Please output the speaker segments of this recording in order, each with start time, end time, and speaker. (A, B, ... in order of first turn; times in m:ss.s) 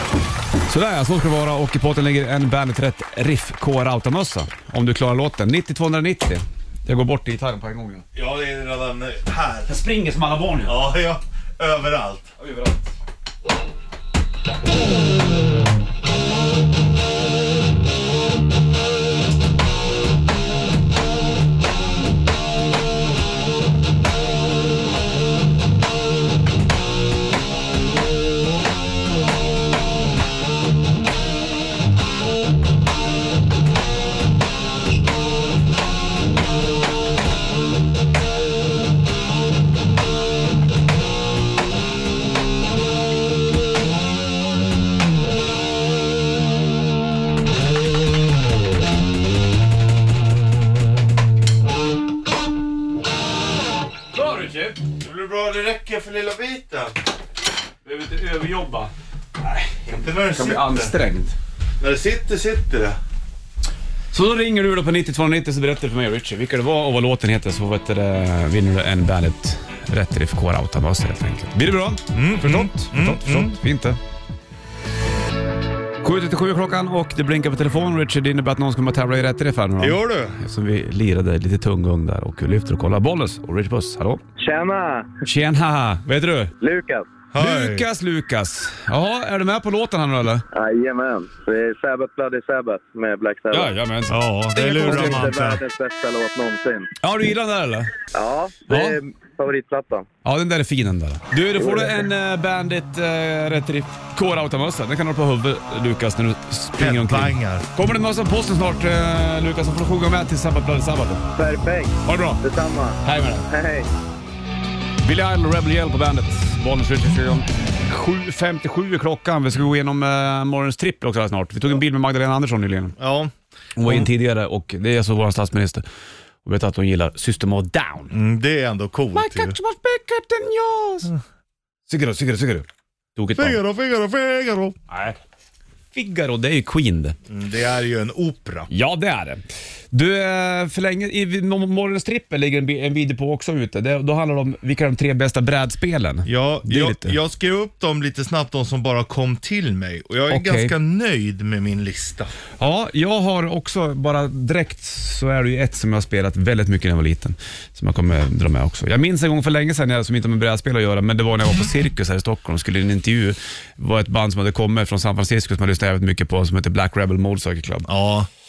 0:00.7-0:08.0 A
0:08.1-0:09.7 B
0:09.7-0:10.9 A
0:10.6-0:12.3 B
0:12.4-0:12.9 A
0:54.1-0:54.8 A
0:55.0-0:57.0 B
0:57.8-0:58.9 A
0:59.5-1:01.4 A
0:59.6-1:01.0 B
1:01.8-1:03.0 B
1:04.1-1:14.0 A
1:12.1-1:13.6 B
1:16.0-1:24.2 A
1:19.8-1:20.4 B
1:24.4-1:25.1 C
1:25.2-1:26.5 A
1:26.6-1:27.1 C
1:27.3-1:27.9 B
1:27.4-1:30.4 A
1:30.5-1:33.7 C
1:33.5-1:35.3 A
1:34.1-1:35.6 B
1:34.6-1:36.9 C
1:37.0-1:37.9 A
1:38.1-1:40.0 C
1:38.7-1:39.0 A
1:40.2-1:51.2 A
1:41.6-1:42.0 C
1:46.8-1:47.7 B
1:51.4-1:53.9 C
1:52.0-1:52.4 A
1:53.0-1:53.5 A
1:55.0-2:03.0 A
2:03.0-2:04.1 B
2:03.8-2:05.8 A
2:06.4-2:08.1 A
2:08.1-2:09.6 B
2:09.1-2:11.1 A
2:11.9-2:13.6 A
2:13.4-2:14.8 B
2:14.9-2:15.2 A
2:15.9-2:17.2 A
2:17.3-2:18.7 B
2:18.7-2:27.2 A
2:26.2-2:32.3 B
2:30.3-2:30.7 A
2:32.6-2:47.9 A
2:47.9-2:48.3 B